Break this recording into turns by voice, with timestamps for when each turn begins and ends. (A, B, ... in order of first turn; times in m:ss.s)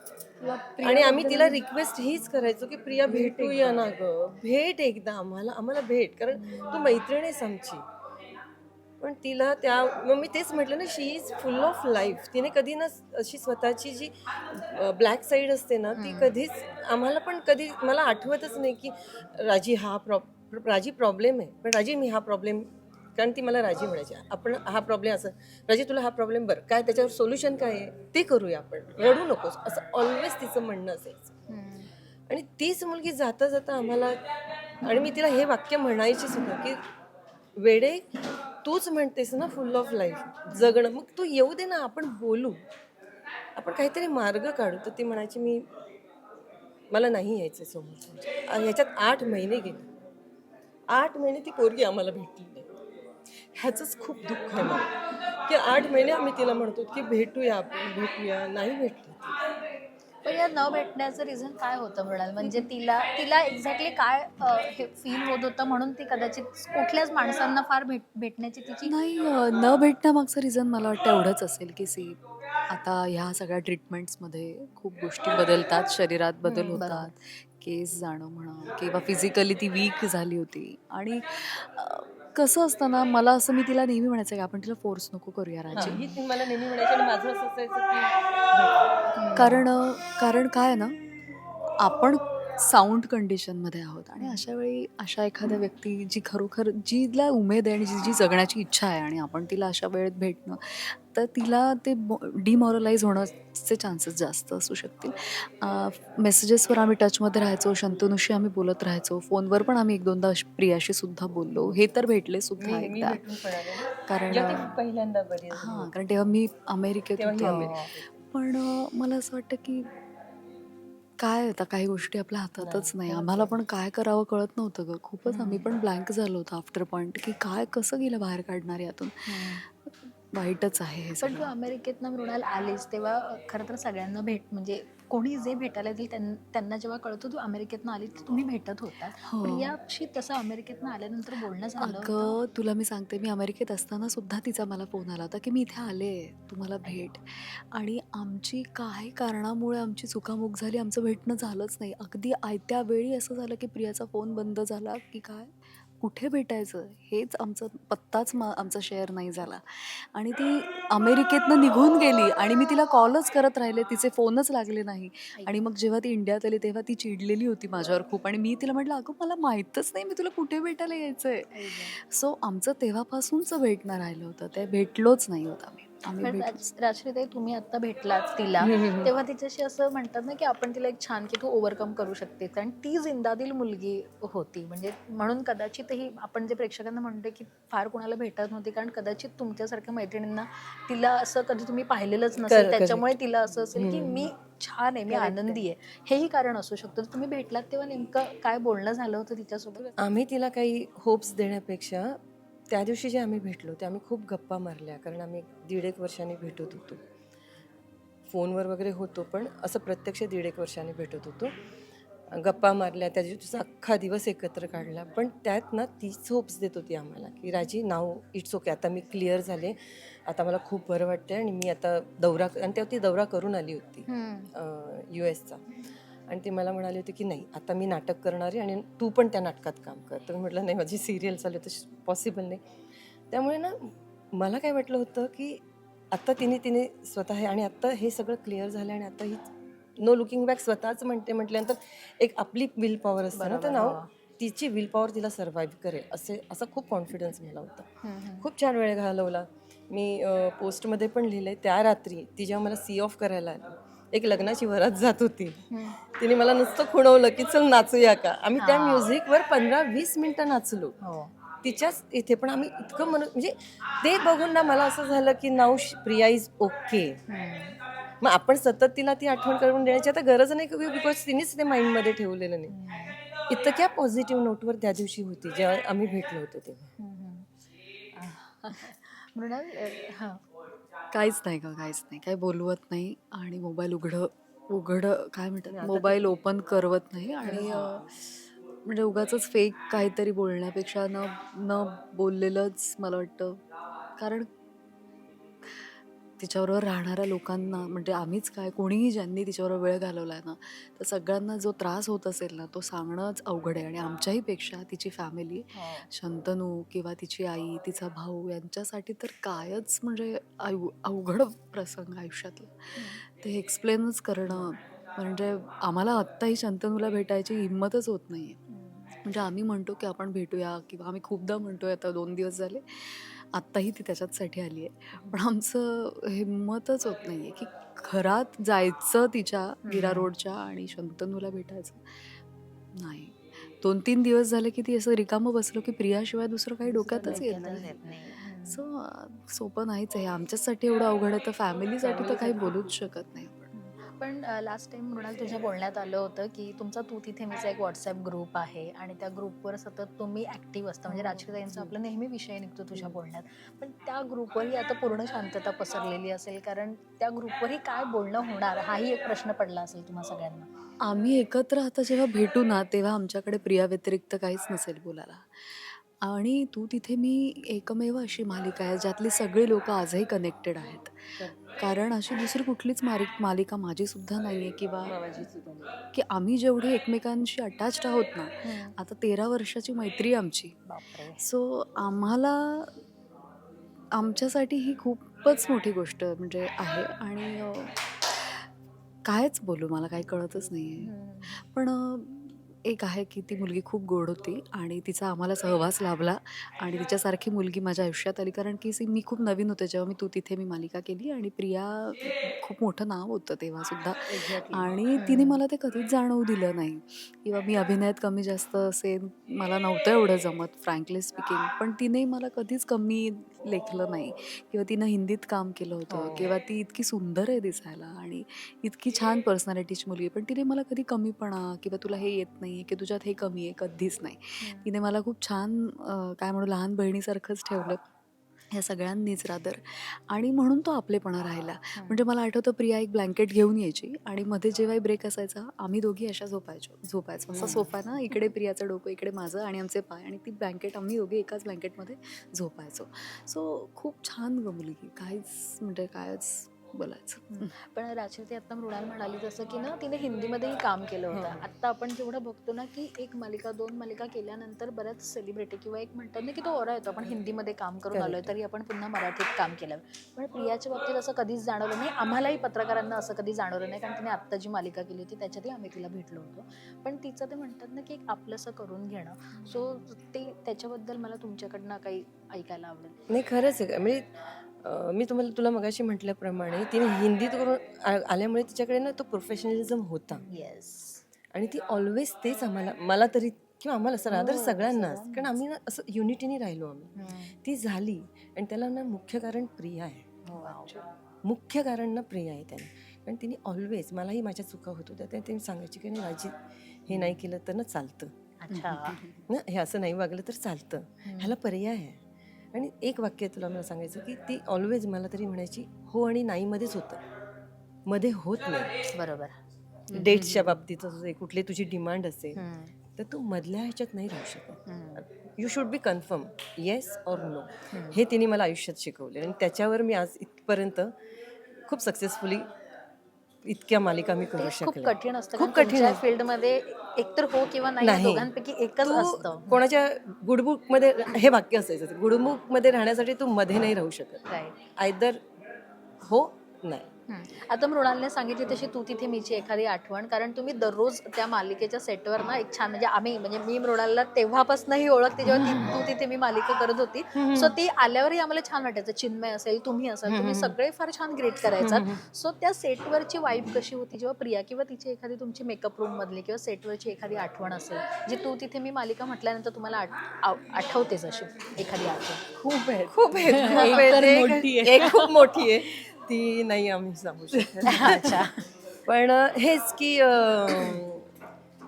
0:00.4-0:01.6 A
0:00.8-0:07.8 B
0:03.1-0:03.7 A
0:03.1-0:03.9 C
0:06.5-0:06.8 A
0:09.0-0:31.4 B
0:16.0-0:16.4 A
0:31.5-0:31.9 A
0:32.3-0:34.2 B
0:34.8-0:36.8 B
0:37.6-0:38.0 B
0:38.6-0:42.6 B
0:40.5-0:40.8 A
0:43.6-0:45.6 B
0:46.9-0:49.9 B
0:50.9-0:52.7 B
0:53.6-0:54.9 B
0:55.4-0:59.4 B
1:00.2-1:08.9 A
1:08.8-1:26.0 C
1:16.4-1:16.8 B
1:16.8-1:17.1 A
1:25.7-1:26.2 A
1:25.8-1:28.9 B
1:29.2-1:29.6 A
1:29.4-1:31.0 C
1:31.8-1:53.2 C
1:34.2-1:34.4 A
1:52.6-1:55.9 B
1:54.1-1:54.8 C
1:55.5-1:59.9 C
1:57.2-1:58.0 B
1:57.4-1:57.9 A
2:01.2-2:11.5 C
2:02.6-2:03.5 B
2:02.9-2:03.4 A
2:05.2-2:05.7 A
2:09.3-2:09.6 A
2:11.2-2:22.4 A
2:19.2-2:19.7 C
2:21.8-2:56.7 C
2:51.5-2:52.0 A
2:56.2-3:20.0 A
2:58.6-2:59.1 B
3:12.4-3:13.2 B
3:13.7-3:14.3 B
3:15.1-3:15.6 B
3:20.0-3:22.2 B
3:22.7-3:27.0 B
3:28.3-3:31.5 B
3:32.3-3:45.6 B
3:44.1-3:44.5 A
3:46.3-3:52.6 B
3:53.3-3:59.5 B
4:00.0-4:07.9 B
4:03.3-4:04.1 A
4:08.0-4:08.5 A
4:08.4-4:21.0 B
4:18.6-4:19.1 A
4:21.0-4:21.3 A
4:21.6-4:27.2 B
4:27.3-4:27.8 A
4:28.2-4:32.7 B
4:32.7-4:33.2 A
4:33.5-4:36.9 B
4:37.0-4:37.5 A
4:38.2-4:40.4 A
4:41.1-4:53.6 C
4:45.7-4:46.4 B
4:47.4-4:48.0 A
4:54.2-4:54.5 C
4:55.6-5:18.6 C
5:05.8-5:06.1 A
5:13.0-5:13.2 A
5:18.7-5:19.1 A
5:19.2-5:32.4 C
5:29.8-5:30.3 A
5:33.0-5:43.7 C
5:36.8-5:38.8 A
5:37.2-5:37.9 B
5:42.0-5:43.0 B
5:43.7-6:00.7 A
5:51.1-5:52.0 C
6:01.0-6:15.2 C
6:15.0-6:15.9 B
6:16.1-6:20.8 C
6:18.6-6:19.0 A
6:20.9-6:21.4 A
6:21.4-6:23.0 C
6:24.2-6:28.7 C
6:29.2-7:08.0 C
6:31.0-6:31.6 A
6:44.3-6:45.0 B
6:45.2-6:45.6 A
6:56.1-6:56.5 A
7:04.6-7:04.9 A
7:08.7-7:27.7 C
7:12.0-7:12.2 A
7:17.5-7:17.9 B
7:27.5-7:53.2 A
7:31.3-7:31.6 B
7:38.1-7:38.6 B
7:53.3-7:54.3 B
7:54.8-8:00.4 B
8:00.5-8:01.2 A
8:01.5-8:10.4 B
8:04.3-8:05.6 C
8:07.2-8:07.6 A
8:10.5-8:11.0 C
8:10.5-8:11.0 A
8:11.4-8:18.3 B
8:18.6-8:19.2 A
8:18.7-8:19.5 C
8:19.5-8:22.2 B
8:21.2-8:21.6 A
8:22.7-8:27.2 B
8:28.1-8:29.0 B
8:29.1-8:29.5 A
8:30.1-8:30.8 C
8:30.1-8:32.6 B
8:32.6-8:32.9 A
8:33.1-8:41.1 B
8:34.9-8:35.2 A
8:37.9-8:38.2 A
8:41.9-8:42.7 B
8:43.6-8:46.2 B
8:44.6-8:49.8 A
8:48.0-8:54.4 B
8:54.5-8:54.8 A
8:55.0-8:55.4 B
8:56.2-8:57.1 B
8:57.3-9:22.5 A
9:05.5-9:06.1 B
9:07.4-9:07.7 B
9:10.3-9:10.8 B
9:11.8-9:12.2 B
9:22.6-9:25.7 C
9:23.1-9:28.4 B
9:23.5-9:24.3 A
9:27.8-9:28.2 C
9:27.9-9:28.6 A
9:29.1-9:31.3 B